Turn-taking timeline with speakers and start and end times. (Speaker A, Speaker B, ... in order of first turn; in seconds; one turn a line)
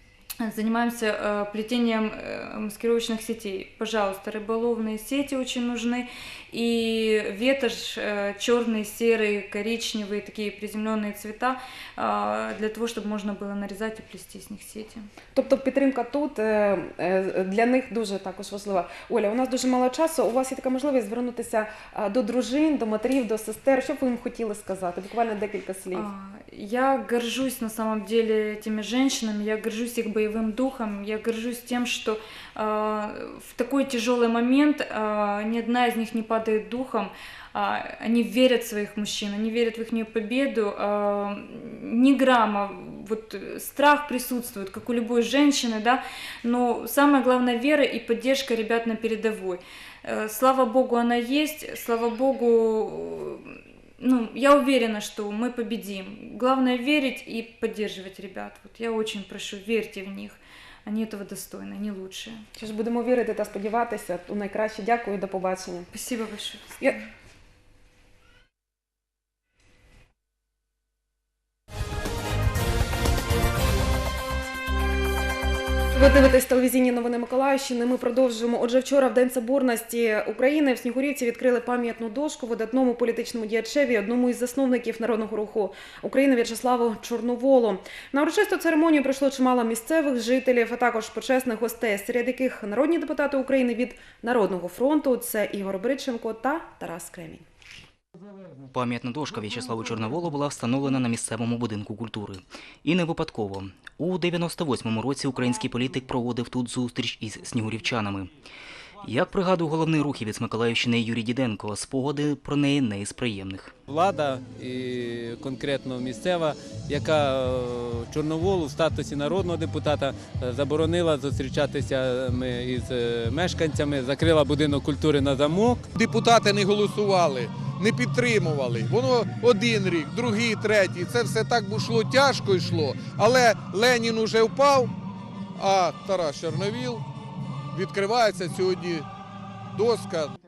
Speaker A: 0.4-15.1
Speaker B: 15.3-26.1
Speaker A: 25.9-62.5
Speaker B: 62.6-65.9
Speaker A: 65.9-67.0
Speaker B: 75.9-97.5
Speaker C: 98.7-108.3
Speaker C: 109.0-113.7
Speaker D: 113.9-125.9
Speaker E: 126.0-134.9
Speaker E: 135.6-137.0
Speaker E: 137.8-139.1
Speaker E: 139.8-140.3